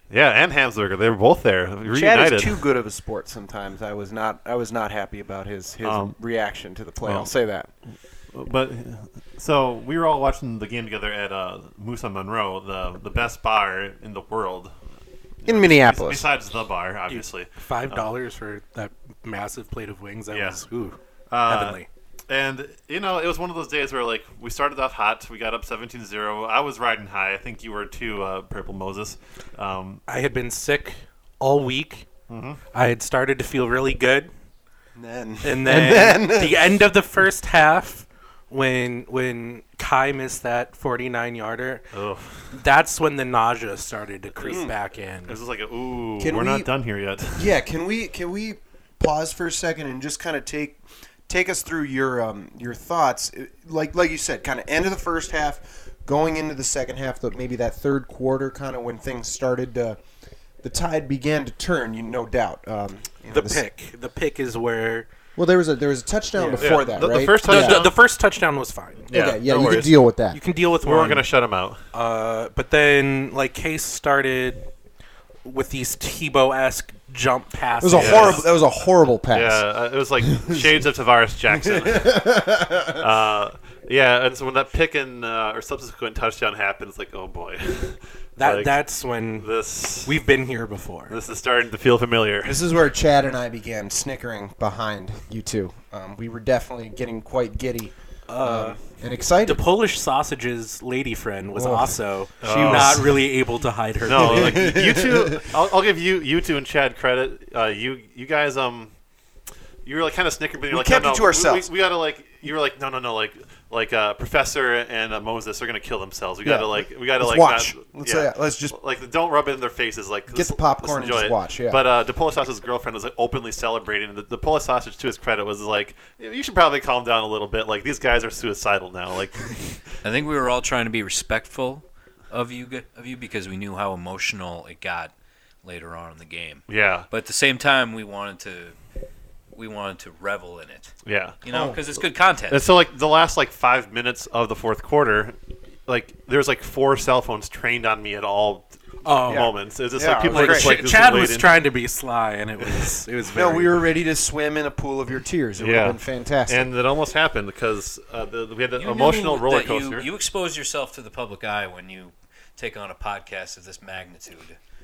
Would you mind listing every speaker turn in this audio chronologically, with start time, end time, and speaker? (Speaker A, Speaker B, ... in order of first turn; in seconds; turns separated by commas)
Speaker A: 0.1-2.6, Speaker B: 1.9-7.7, Speaker A: 5.8-6.1, Speaker A: 7.0-7.3, Speaker A: 8.3-14.7, Speaker A: 15.4-18.1, Speaker B: 15.4-16.3, Speaker C: 17.1-21.9, Speaker A: 20.3-20.6, Speaker A: 21.3-30.0, Speaker C: 30.1-32.0, Speaker A: 32.3-32.6, Speaker C: 32.7-34.3, Speaker B: 34.9-36.6, Speaker C: 35.4-41.8, Speaker A: 41.9-42.5, Speaker C: 42.5-45.4, Speaker B: 44.4-44.7, Speaker A: 45.3-47.5, Speaker B: 46.2-46.7, Speaker B: 47.4-60.0, Speaker B: 60.6-63.6, Speaker C: 63.3-65.1, Speaker B: 65.4-67.8, Speaker C: 66.3-66.8, Speaker A: 66.6-67.9, Speaker C: 67.4-69.2, Speaker A: 69.1-70.0, Speaker B: 69.1-70.4, Speaker C: 70.3-71.3, Speaker A: 70.8-71.8, Speaker C: 71.9-74.7, Speaker C: 75.4-78.5, Speaker B: 77.8-79.6, Speaker A: 78.0-78.5, Speaker A: 79.3-82.3, Speaker B: 80.3-80.7, Speaker B: 81.6-83.0, Speaker A: 83.0-88.8, Speaker C: 88.4-89.5, Speaker A: 89.4-90.2, Speaker C: 90.0-91.2, Speaker A: 91.1-92.5, Speaker B: 92.4-99.6, Speaker C: 98.3-98.8, Speaker C: 99.4-104.7, Speaker B: 101.5-103.2, Speaker A: 102.4-103.2, Speaker A: 104.0-108.9, Speaker B: 104.1-105.4, Speaker A: 109.8-129.8, Speaker B: 110.7-111.7, Speaker B: 116.4-118.8, Speaker B: 120.3-121.8, Speaker D: 130.0-135.1, Speaker D: 135.6-138.7, Speaker A: 136.7-137.1, Speaker D: 139.5-142.7, Speaker A: 141.1-141.9, Speaker B: 141.5-141.8, Speaker A: 142.5-151.6, Speaker C: 149.0-149.5, Speaker B: 149.3-150.8, Speaker C: 150.3-153.8, Speaker B: 153.3-156.7, Speaker A: 155.6-160.1, Speaker D: 158.8-164.6